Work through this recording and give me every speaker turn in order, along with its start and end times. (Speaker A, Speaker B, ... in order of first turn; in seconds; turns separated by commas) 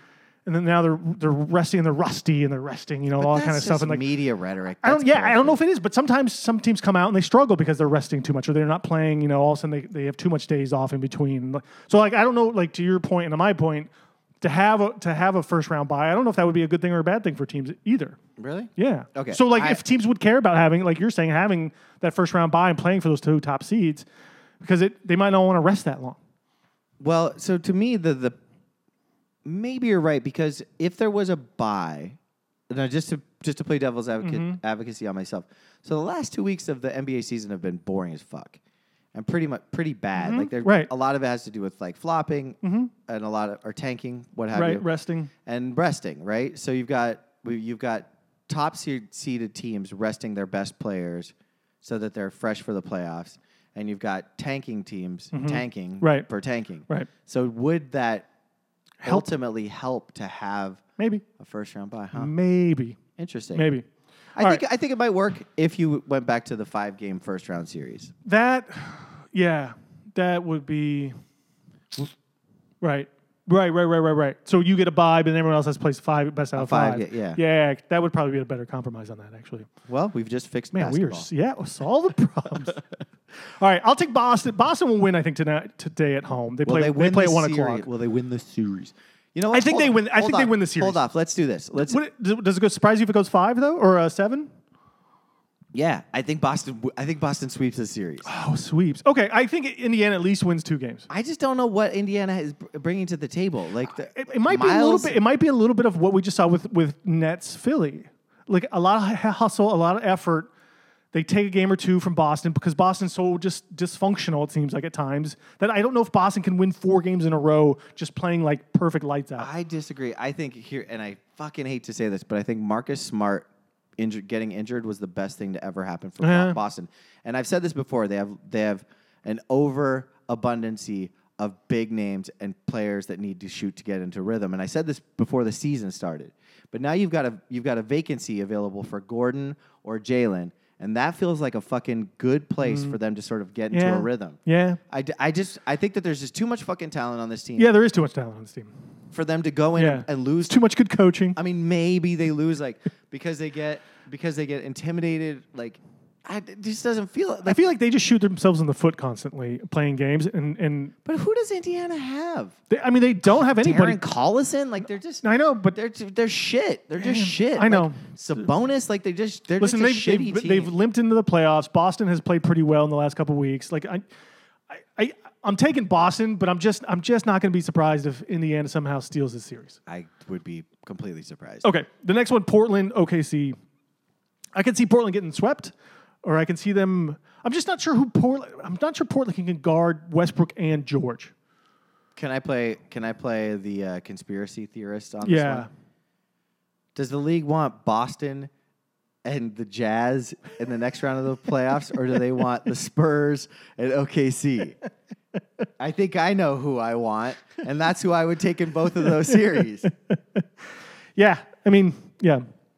Speaker A: 0.5-4.0, Speaker B: 3.2-5.6, Speaker A: 4.8-13.9, Speaker A: 14.4-18.2, Speaker B: 18.4-19.8, Speaker A: 18.8-24.0, Speaker A: 24.6-26.2, Speaker B: 27.0-28.4, Speaker B: 29.4-32.2, Speaker B: 32.7-38.6, Speaker A: 34.2-34.6, Speaker B: 39.1-44.9, Speaker A: 40.1-40.9, Speaker A: 42.6-42.9, Speaker A: 44.5-45.3, Speaker B: 45.5-58.3, Speaker A: 55.3-56.3, Speaker A: 59.0-59.3, Speaker B: 59.0-60.8, Speaker A: 61.0-61.2, Speaker B: 61.4-62.3, Speaker A: 62.1-63.0, Speaker B: 63.2-63.7, Speaker A: 63.5-63.9, Speaker B: 64.3-68.1, Speaker A: 64.4-64.6, Speaker A: 68.2-71.1, Speaker A: 72.8-79.7, Speaker B: 76.5-77.4, Speaker B: 79.9-81.3, Speaker A: 80.7-82.8, Speaker A: 83.3-87.9, Speaker B: 86.6-92.0, Speaker A: 89.5-91.0, Speaker A: 91.8-94.5, Speaker B: 95.7-98.3, Speaker A: 98.2-101.1, Speaker B: 101.1-105.2, Speaker A: 104.0-110.5, Speaker A: 111.1-119.5, Speaker B: 119.4-147.7, Speaker A: 126.2-126.6, Speaker A: 142.6-143.0, Speaker A: 143.7-144.8, Speaker A: 147.6-148.7, Speaker B: 149.1-150.6, Speaker A: 149.8-151.4, Speaker B: 151.3-157.7, Speaker A: 157.4-160.9, Speaker B: 161.0-162.6, Speaker A: 162.7-164.0, Speaker B: 163.2-170.7, Speaker A: 165.2-165.8, Speaker A: 167.0-168.0, Speaker A: 169.6-174.0, Speaker A: 174.7-179.8, Speaker B: 179.9-181.7, Speaker A: 181.6-183.6, Speaker A: 184.6-185.7, Speaker A: 186.2-191.3, Speaker B: 192.2-195.7, Speaker A: 195.2-195.7, Speaker B: 196.9-198.5, Speaker B: 199.2-204.8, Speaker B: 205.8-209.9, Speaker A: 209.0-210.4, Speaker A: 211.2-212.4